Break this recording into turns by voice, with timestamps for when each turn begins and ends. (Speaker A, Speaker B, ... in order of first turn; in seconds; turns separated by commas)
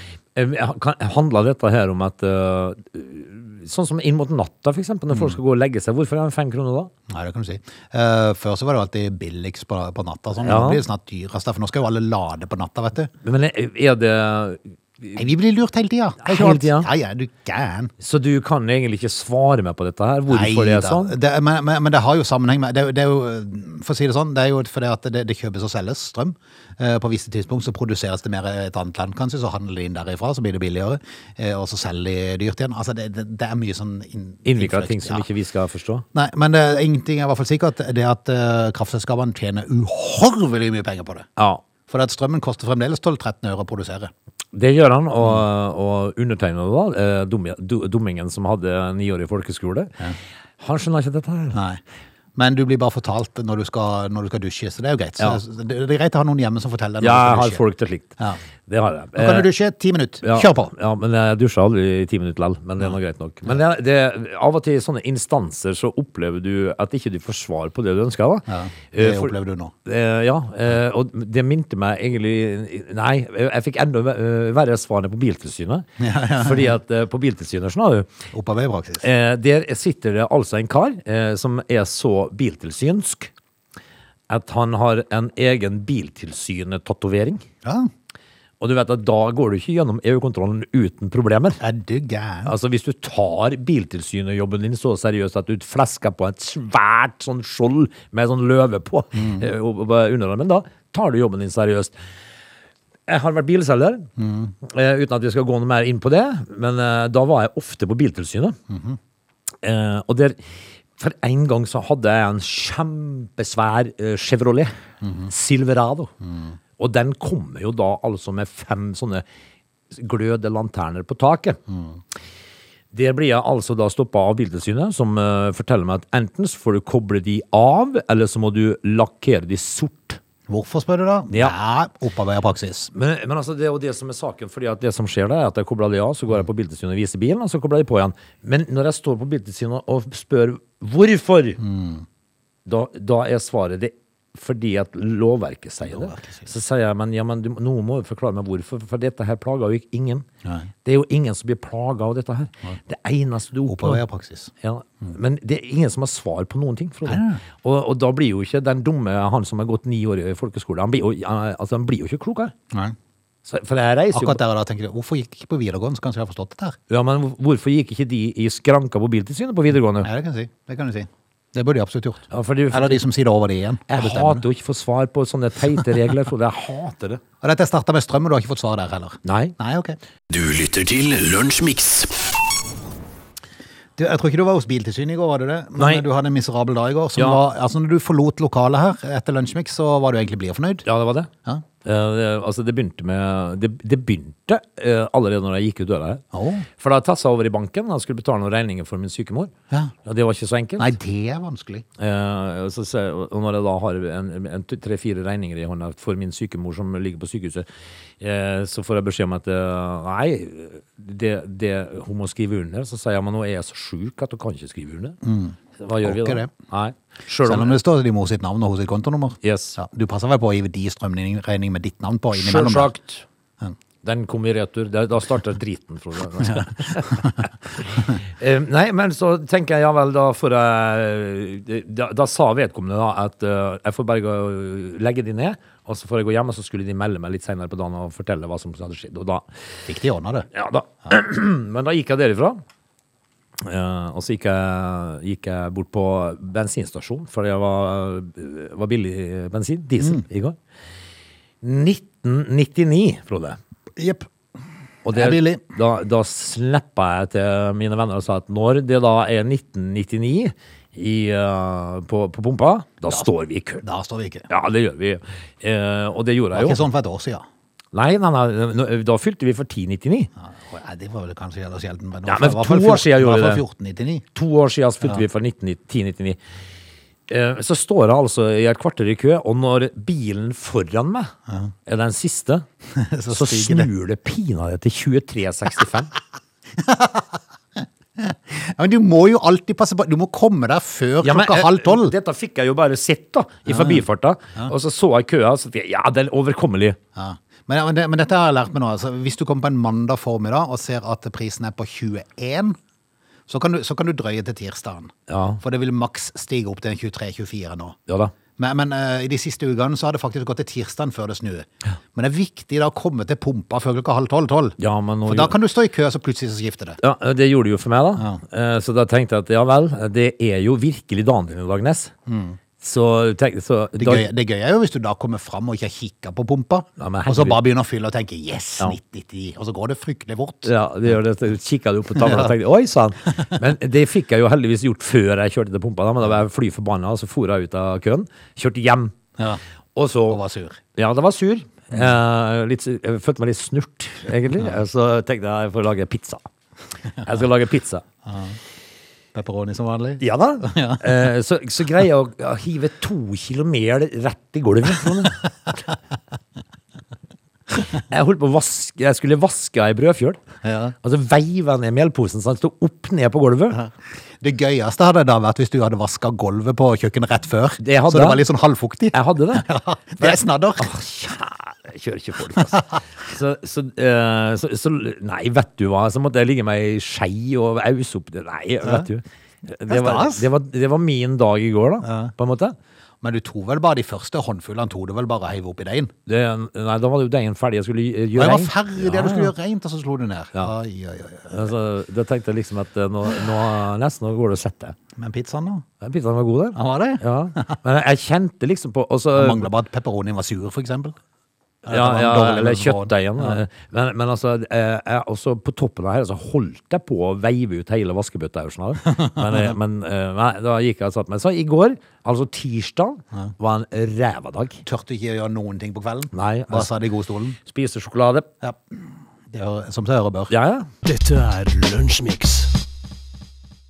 Speaker A: 0.4-6.9, Speaker B: 5.1-5.4, Speaker B: 7.1-13.1, Speaker A: 10.4-10.8, Speaker A: 13.2-15.2, Speaker B: 15.2-17.9, Speaker A: 16.2-16.9, Speaker A: 18.0-21.1, Speaker B: 20.3-35.3, Speaker A: 34.5-36.0, Speaker B: 36.1-41.3, Speaker A: 41.4-41.6, Speaker B: 41.9-44.1, Speaker A: 44.5-50.0, Speaker A: 50.6-51.6, Speaker B: 51.5-51.8, Speaker B: 52.4-57.6, Speaker A: 57.0-59.5, Speaker B: 59.1-60.7, Speaker A: 60.2-69.3, Speaker B: 68.5-69.7, Speaker A: 69.8-78.1, Speaker B: 76.0-76.8, Speaker B: 78.3-79.0, Speaker A: 79.0-83.3, Speaker A: 84.3-87.4, Speaker B: 87.6-87.9, Speaker A: 88.6-91.6, Speaker B: 91.6-92.5, Speaker A: 92.5-101.9, Speaker B: 99.2-99.5, Speaker A: 103.1-104.1, Speaker B: 104.2-104.5, Speaker A: 104.6-108.6, Speaker B: 108.7-109.0, Speaker A: 109.6-110.4, Speaker A: 111.0-114.7, Speaker B: 115.0-115.3, Speaker A: 115.3-116.1, Speaker B: 116.2-116.5, Speaker A: 116.8-119.2, Speaker A: 119.9-121.6, Speaker B: 121.7-122.0, Speaker A: 122.9-130.2, Speaker B: 130.5-132.9, Speaker A: 132.9-141.6, Speaker B: 141.6-142.1, Speaker A: 142.7-150.3, Speaker B: 145.8-146.5, Speaker B: 150.4-150.7, Speaker A: 150.8-154.0, Speaker B: 153.7-154.5, Speaker A: 154.6-162.5, Speaker B: 157.1-157.4, Speaker A: 163.4-164.4, Speaker B: 164.1-166.8, Speaker A: 166.9-170.1, Speaker B: 170.0-174.4, Speaker A: 172.3-173.0, Speaker A: 173.9-177.2, Speaker B: 177.4-180.0, Speaker A: 179.2-179.6, Speaker C: 180.3-182.3, Speaker B: 184.0-190.9, Speaker A: 185.8-186.1, Speaker A: 187.2-187.4, Speaker A: 190.8-191.3, Speaker A: 191.8-196.2, Speaker B: 196.3-196.7, Speaker A: 196.8-199.5, Speaker A: 200.0-201.0, Speaker B: 200.8-201.9, Speaker A: 202.0-207.7, Speaker A: 208.2-215.2, Speaker B: 215.2-216.5, Speaker A: 215.8-217.8, Speaker B: 217.4-222.9, Speaker A: 219.4-219.8, Speaker A: 222.3-223.3, Speaker A: 224.0-239.5, Speaker B: 226.5-227.4, Speaker B: 239.9-240.5, Speaker A: 240.5-242.6, Speaker A: 243.6-250.6, Speaker A: 251.6-253.6, Speaker B: 254.0-254.3, Speaker A: 255.1-263.8, Speaker B: 255.1-255.6, Speaker B: 263.8-264.5, Speaker A: 264.5-266.9, Speaker B: 266.5-267.4, Speaker A: 267.9-270.3, Speaker B: 270.4-274.2, Speaker A: 272.3-273.6, Speaker A: 274.4-276.4, Speaker A: 277.3-281.3, Speaker A: 281.9-282.7, Speaker B: 282.9-283.9, Speaker A: 283.3-286.1, Speaker B: 286.8-287.4, Speaker B: 288.2-292.1, Speaker A: 291.2-297.0, Speaker B: 293.7-294.0, Speaker B: 297.2-302.8, Speaker B: 303.5-308.0, Speaker A: 305.3-305.6, Speaker A: 308.1-308.4, Speaker B: 308.6-317.0, Speaker A: 314.8-315.6, Speaker A: 317.0-322.1, Speaker B: 322.3-322.6, Speaker A: 322.8-324.3, Speaker B: 324.0-330.7, Speaker A: 327.0-327.6, Speaker A: 330.6-339.1, Speaker B: 332.2-332.5, Speaker A: 339.9-340.4, Speaker B: 340.3-340.8, Speaker A: 340.9-346.5, Speaker A: 347.2-348.1, Speaker B: 348.3-348.6, Speaker B: 349.3-351.1, Speaker A: 350.2-355.4, Speaker A: 357.8-360.4, Speaker B: 360.6-361.0, Speaker A: 361.0-363.8, Speaker B: 363.7-370.9, Speaker A: 367.8-368.4, Speaker A: 369.1-369.7, Speaker A: 370.2-382.8, Speaker B: 379.9-380.5, Speaker B: 382.0-382.3, Speaker B: 383.2-386.1, Speaker A: 386.3-389.5, Speaker B: 388.4-391.7, Speaker A: 391.5-395.0, Speaker B: 395.2-395.9, Speaker A: 396.0-399.7, Speaker B: 396.8-397.8, Speaker B: 399.3-401.2, Speaker B: 401.9-403.6, Speaker A: 401.9-414.8, Speaker B: 409.1-409.7, Speaker B: 414.8-417.6, Speaker A: 416.3-416.9, Speaker A: 417.6-418.5, Speaker B: 419.5-420.5, Speaker A: 420.5-420.9, Speaker C: 421.0-422.7